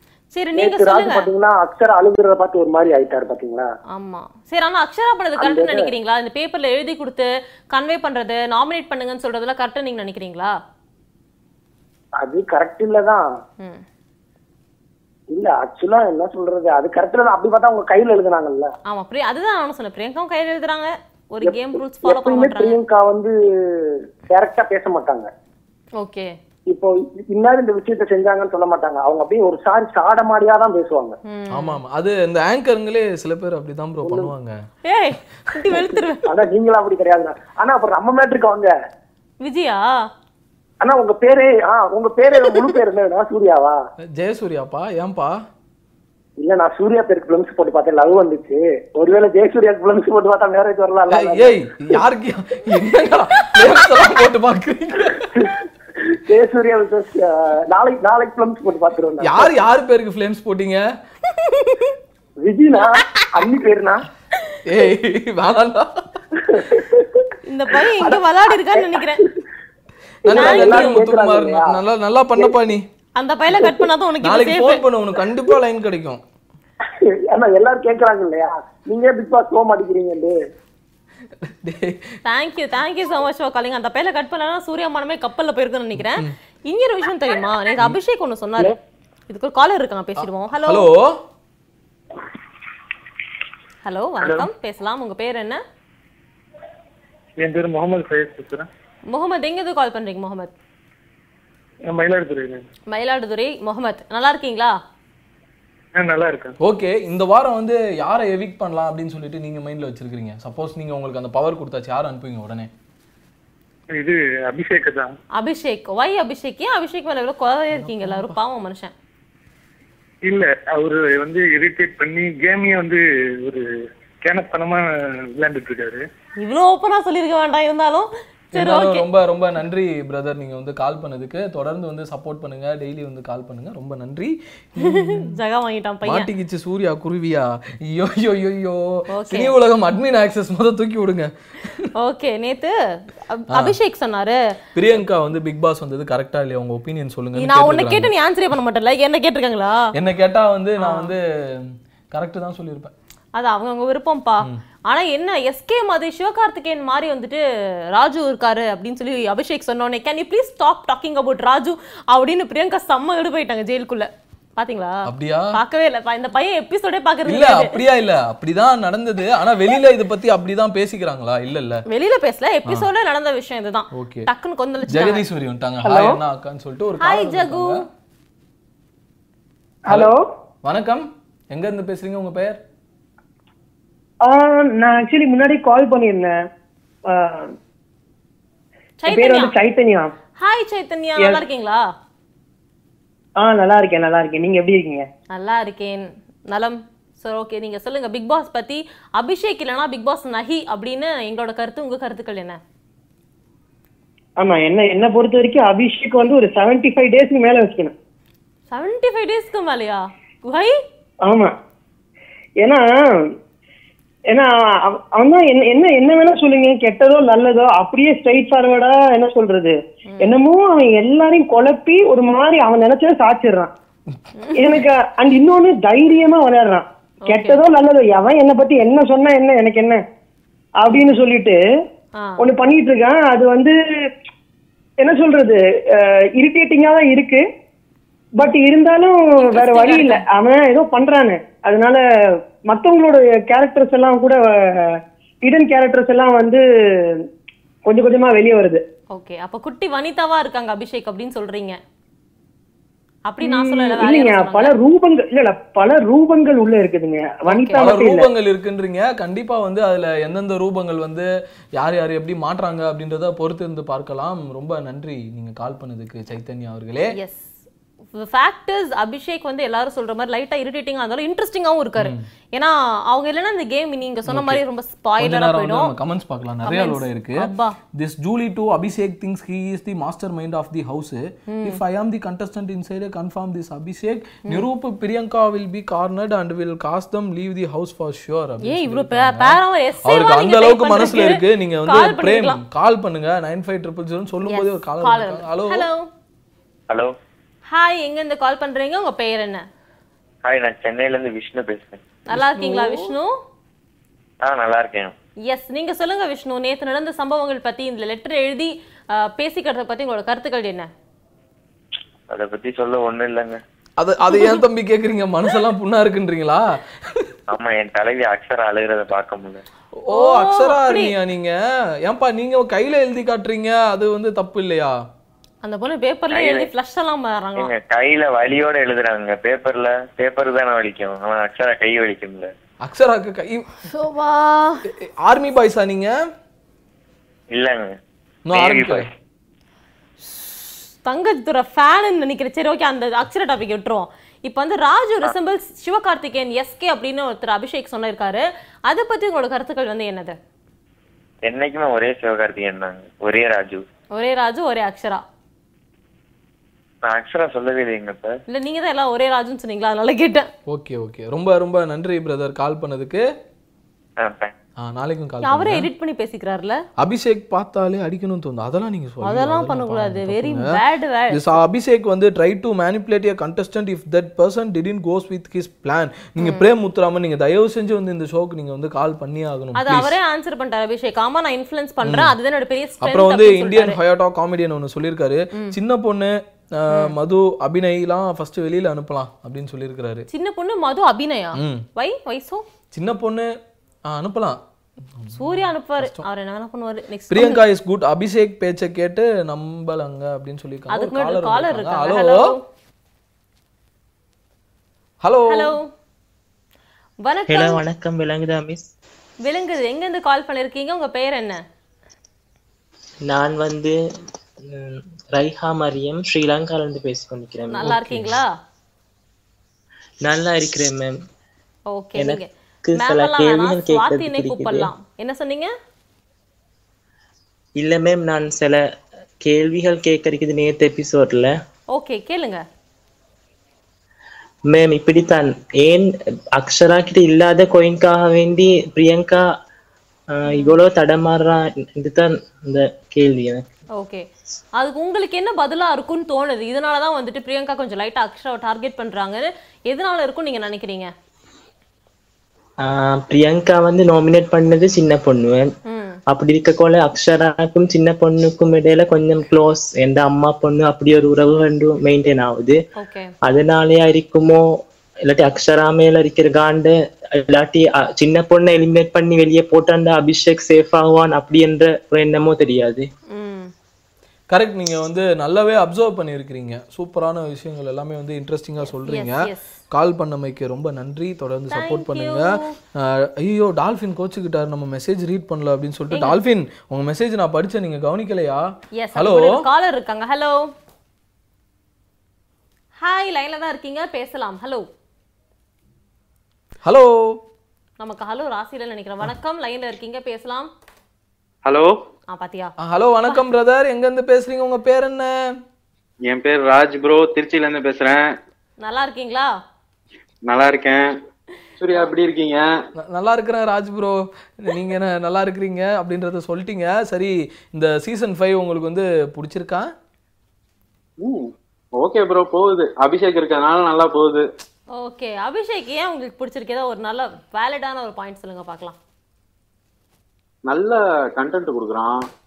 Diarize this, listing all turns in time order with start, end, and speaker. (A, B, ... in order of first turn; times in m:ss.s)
0:00.3-0:01.3 A
0:00.6-0:03.7 B
0:03.9-0:10.5 A
0:05.4-0:05.9 B
0:12.2-0:13.2 B
0:15.3-0:18.7 B
0:18.9-0:22.8 A
0:21.5-0:25.3 B
0:26.0-0:26.3 A
0:26.7-0:31.2 B
0:31.3-0:31.8 A
0:31.5-0:34.6 C
0:34.0-0:34.3 B
0:34.8-0:36.2 A
0:36.2-0:38.7 B
0:39.4-0:39.9 A
0:40.8-0:43.8 B
0:44.2-0:45.4 C
0:46.4-0:51.6 B
0:51.1-0:55.3 C
0:56.3-0:59.5 B
0:59.2-1:00.8 C
1:01.4-1:02.0 A
1:02.4-1:04.0 B
1:04.7-1:06.0 C
1:06.4-1:07.2 B
1:07.4-1:09.2 A
1:08.0-1:09.1 B
1:10.3-1:11.8 B
1:10.3-1:12.8 C
1:10.3-1:11.0 A
1:13.2-1:14.8 A
1:14.2-1:16.2 C
1:17.0-1:20.4 B
1:21.4-1:22.1 C
1:22.2-1:28.8 A
1:26.0-1:26.4 C
1:29.3-1:30.9 A
1:30.2-1:31.2 C
1:33.8-1:35.6 A
1:37.4-1:38.7 D
1:39.1-1:40.5 A
1:41.9-1:42.6 D
1:42.9-1:44.8 A
1:46.0-1:46.6 D
1:46.6-1:52.7 C
1:54.0-1:55.1 D
1:55.4-1:58.9 A
1:57.8-1:58.4 C
2:00.3-2:03.6 D
2:04.2-2:06.0 D
2:06.4-2:09.1 A
2:08.5-2:15.3 C
2:14.8-2:16.3 A
2:16.0-2:21.9 C
2:19.1-2:19.5 A
2:22.0-2:22.7 A
2:23.3-2:24.4 A
2:24.8-2:28.1 C
2:27.4-2:29.9 A
2:30.0-2:32.9 C
2:30.8-2:31.1 A
2:33.4-2:37.4 A
2:37.9-2:47.8 A
2:45.1-2:45.6 C
2:47.3-2:51.8 C
2:51.9-2:55.2 A
2:53.9-2:54.3 C
2:54.9-2:57.8 C
2:55.8-2:56.2 E
2:57.0-2:57.8 A
2:59.9-3:00.2 E
2:59.9-3:02.6 C
3:04.2-3:06.4 E
3:07.1-3:07.5 E
3:09.0-3:09.6 A
3:09.1-3:10.1 E
3:10.4-3:11.8 A
3:13.4-3:15.1 E
3:15.3-3:22.6 A
3:24.4-3:27.9 E
3:28.7-3:30.8 A
3:31.3-3:31.5 E
3:32.6-3:33.3 E
3:34.3-3:43.7 E
3:40.1-3:40.4 A
3:44.4-3:44.7 A
3:44.6-3:50.0 E
3:47.3-3:47.6 A
3:50.8-3:51.6 E
3:52.4-3:53.8 E
3:55.0-3:57.4 E
3:58.4-4:02.0 E
3:59.4-4:00.2 A
4:02.7-4:06.6 E
4:07.8-4:08.8 E
4:09.1-4:11.8 A
4:13.3-4:14.8 A
4:13.4-4:18.3 E
4:17.5-4:17.9 A
4:17.8-4:21.3 C
4:21.8-4:27.1 C
4:27.1-4:27.5 A
4:28.2-4:35.9 A
4:32.0-4:32.3 C
4:34.3-4:34.6 C
4:35.2-4:55.9 C
4:36.6-4:37.8 A
4:41.5-4:41.8 A
4:48.6-4:52.6 A
4:54.4-4:56.1 A
4:57.7-4:59.6 A
5:00.4-5:02.0 F
5:02.3-5:03.3 A
5:02.3-5:03.1 C
5:04.4-5:05.1 F
5:05.5-5:10.9 A
5:12.3-5:13.6 F
5:14.0-5:17.3 C
5:14.3-5:14.6 A
5:17.5-5:19.6 F
5:20.0-5:25.0 C
5:20.1-5:21.1 A
5:25.6-5:27.7 A
5:26.3-5:26.7 F
5:27.6-5:32.5 F
5:32.8-5:33.7 C
5:33.9-5:34.8 A
5:34.9-5:36.1 C
5:37.5-5:38.0 F
5:38.5-5:39.1 C
5:38.5-5:39.1 F
5:41.0-5:50.4 A
5:51.4-5:53.8 F
5:54.1-5:55.2 A
5:57.0-5:58.4 F
5:58.5-6:00.5 A
6:00.7-6:03.2 C
6:04.2-6:04.5 F
6:04.8-6:05.9 C
6:05.4-6:06.8 A
6:07.0-6:10.7 C
6:09.2-6:11.4 A
6:11.3-6:20.2 C
6:16.4-6:16.6 A
6:19.8-6:24.0 A
6:22.0-6:22.3 C
6:23.0-6:30.3 C
6:30.3-6:32.6 A
6:31.6-6:31.8 C
6:32.9-6:33.5 C
6:34.1-6:34.6 C
6:35.2-6:36.2 C
6:35.3-6:37.6 A
6:37.3-6:42.5 C
6:40.9-6:42.6 A
6:45.2-6:45.8 C
6:45.5-6:45.9 A
6:47.2-6:47.8 A
6:47.5-6:48.8 G
6:49.4-6:51.6 A
6:53.3-6:54.0 G
6:54.7-6:58.3 G
6:57.7-6:58.5 A
7:00.2-7:01.2 G
7:01.9-7:05.7 A
7:02.2-7:04.9 G
7:07.8-7:08.8 G
7:09.4-7:11.5 G
7:11.9-7:12.6 A
7:14.7-7:19.4 G
7:20.3-7:23.6 G
7:20.5-7:20.8 A
7:24.0-7:24.3 A
7:24.8-7:31.1 A
7:32.8-7:35.7 G
7:35.9-7:36.2 A
7:36.3-7:42.8 G
7:43.0-7:43.3 A
7:43.5-7:44.7 G
7:45.3-7:53.1 G
7:53.3-7:53.7 A
7:54.5-8:09.6 C
7:59.0-7:59.8 A
8:01.7-8:02.8 A
8:06.1-8:06.4 A
8:09.0-8:10.7 A
8:13.0-8:14.8 A
8:16.8-8:17.4 C
8:18.0-8:20.7 A
8:22.3-8:22.7 A
8:22.8-8:25.3 C
8:26.3-8:28.2 H
8:28.8-8:29.5 A
8:30.5-8:31.0 H
8:31.8-8:32.7 H
8:33.0-8:39.9 C
8:41.2-8:41.5 H
8:42.0-8:44.4 H
8:45.0-8:49.0 A
8:50.7-8:52.1 H